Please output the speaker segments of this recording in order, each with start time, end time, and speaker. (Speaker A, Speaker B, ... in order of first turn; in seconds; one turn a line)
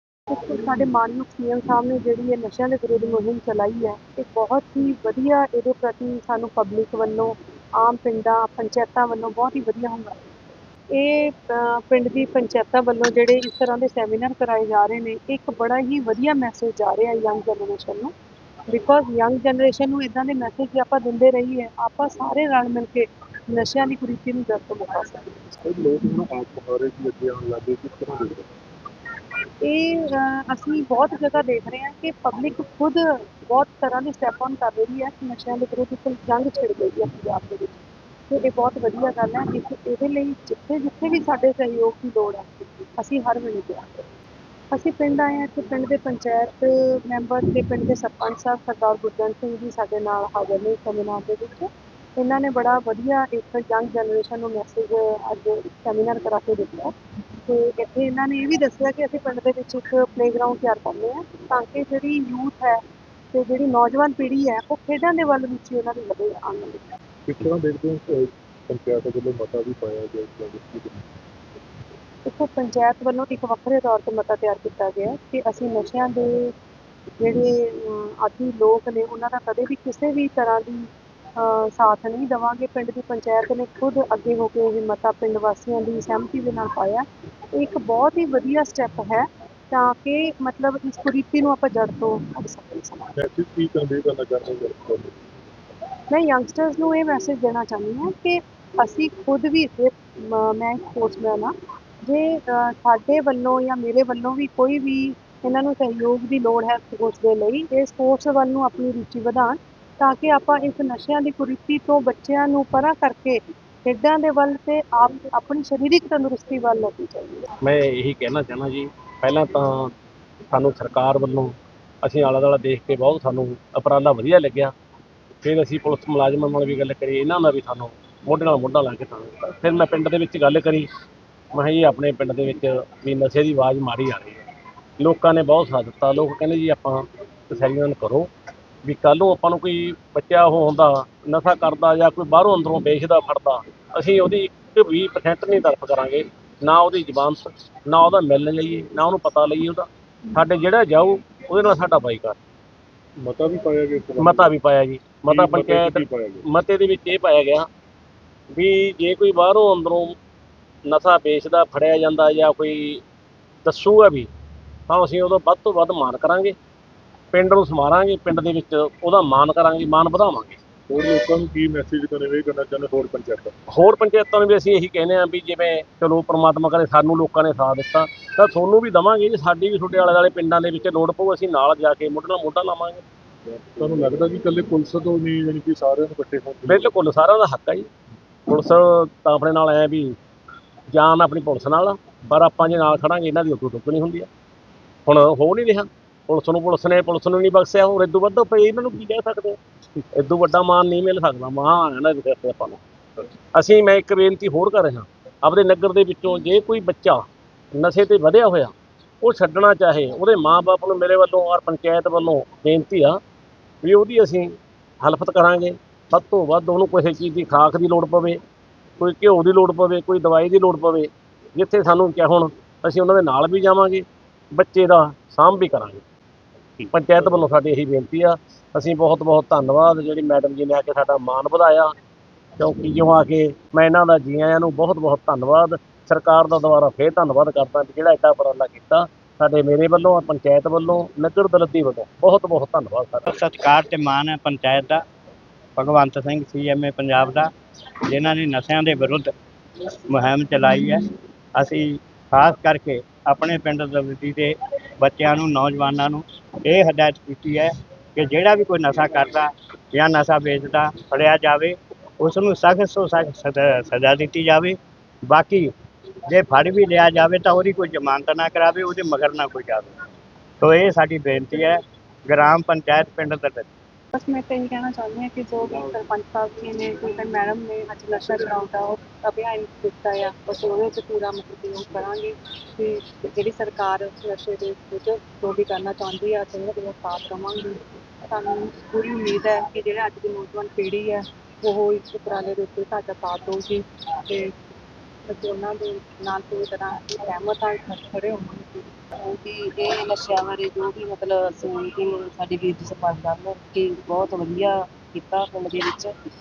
Speaker A: 0.3-10.2
Speaker A: 10.9-18.1
Speaker A: 18.7-25.4
Speaker B: 25.6-28.4
Speaker A: 29.6-42.5
Speaker A: 43.0-44.0
Speaker A: 44.7-56.9
Speaker A: 57.5-62.8
Speaker A: 63.3-66.8
Speaker B: 67.3-71.0
Speaker A: 72.2-76.5
Speaker A: 77.2-93.1
Speaker B: 93.2-95.1
Speaker A: 96.1-101.5
Speaker A: 102.0-117.5
Speaker C: 117.6-119.9
Speaker C: 120.5-124.7
Speaker C: 125.4-130.9
Speaker C: 131.5-134.4
Speaker C: 135.0-138.3
Speaker C: 138.8-152.3
Speaker B: 153.2-154.5
Speaker C: 154.2-157.7
Speaker B: 155.3-156.4
Speaker C: 158.5-160.1
Speaker C: 160.9-163.0
Speaker C: 163.6-164.3
Speaker C: 164.9-166.5
Speaker C: 167.3-170.6
Speaker B: 170.9-173.5
Speaker C: 173.7-183.0
Speaker B: 183.5-186.9
Speaker C: 186.7-187.9
Speaker C: 188.5-190.1
Speaker C: 190.9-194.3
Speaker C: 195.1-199.6
Speaker C: 200.2-202.8
Speaker C: 203.5-207.2
Speaker C: 207.8-208.7
Speaker C: 209.2-213.2
Speaker C: 213.8-218.4
Speaker C: 219.0-226.0
Speaker C: 226.9-231.9
Speaker C: 232.6-243.3
Speaker D: 243.3-245.0
Speaker D: 245.8-247.5
Speaker D: 248.1-249.3
Speaker D: 250.1-251.0
Speaker D: 251.6-265.7
Speaker D: 266.3-269.9
Speaker D: 270.6-273.7
Speaker E: 274.1-294.5
Speaker E: 295.3-298.9
Speaker F: 299.2-306.1